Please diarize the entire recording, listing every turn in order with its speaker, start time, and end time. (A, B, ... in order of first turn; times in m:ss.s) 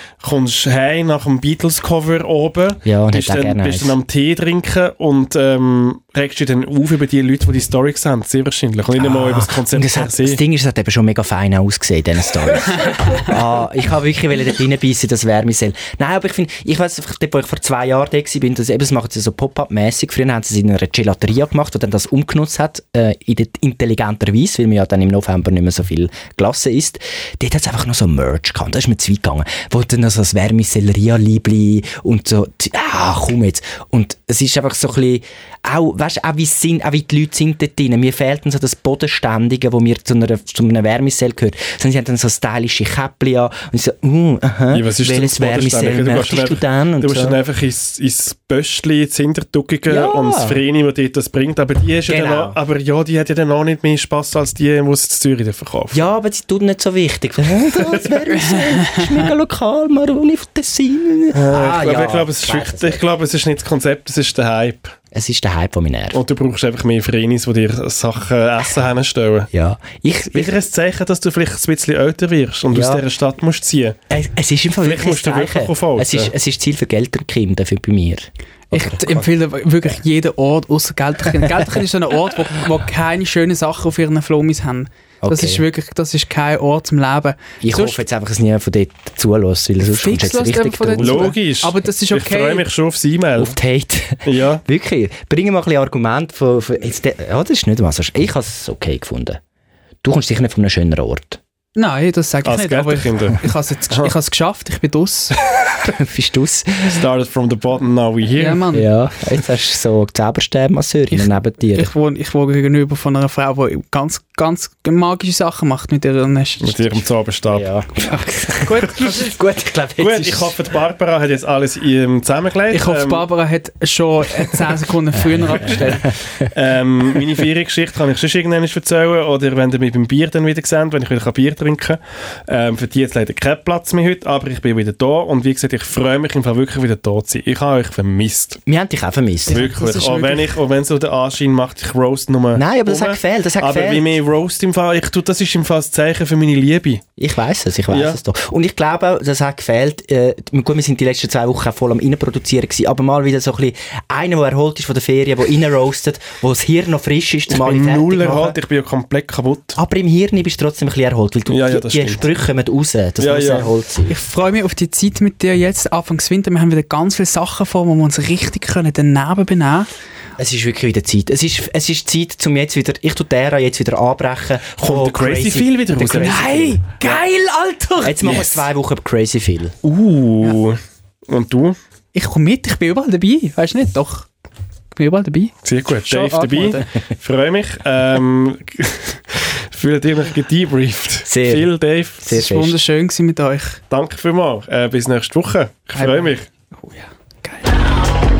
0:00.2-0:10.4 A
0:02.8-0:04.0 B
0:09.0-0:47.4 B
0:44.7-0:56.0 A
0:49.9-0:50.6 B
0:52.1-0:52.6 B
0:55.9-1:03.0 B
0:58.3-0:59.3 C
1:01.3-1:05.0 A
1:05.1-1:06.2 B
1:06.1-1:09.5 A
1:09.5-1:10.5 B
1:10.3-1:14.0 A
1:12.7-1:13.0 B
1:14.1-1:19.3 B
1:14.8-1:16.3 A
1:18.7-1:28.0 C
1:25.2-1:25.6 B
1:27.6-1:31.3 B
1:29.8-1:32.6 C
1:31.0-1:33.5 A
1:33.4-1:39.4 B
1:34.2-1:34.6 A
1:40.0-1:41.4 B
1:41.7-1:45.4 C
1:42.4-1:44.1 A
1:45.8-1:47.0 B
1:46.8-1:48.6 A
1:48.4-1:48.9 C
1:48.7-1:51.9 B
1:51.2-1:57.0 C
1:56.6-1:57.7 A
1:57.5-2:00.5 B
1:58.6-1:59.3 C
2:00.0-2:03.2 A
2:02.7-2:06.1 C
2:06.5-2:18.6 A
2:18.6-2:19.7 B
2:19.5-2:20.6 C
2:19.5-2:27.0 A
2:22.5-2:24.1 B
2:27.2-2:38.6 B
2:27.9-2:28.2 A
2:37.5-2:39.8 A
2:39.8-2:44.2 B
2:41.5-2:42.2 A
2:43.2-2:43.7 A
2:44.1-2:49.9 C
2:50.4-2:57.2 B
2:54.8-2:56.5 A
2:56.2-2:58.6 C
2:58.0-2:59.7 B
2:59.8-3:01.8 A
3:02.1-3:04.3 C
3:04.9-3:05.5 C
3:05.6-3:12.2 A
3:06.0-3:06.9 C
3:11.2-3:11.7 B
3:12.2-3:12.8 B
3:12.3-3:13.8 C
3:13.9-3:16.5 A
3:16.0-3:17.7 C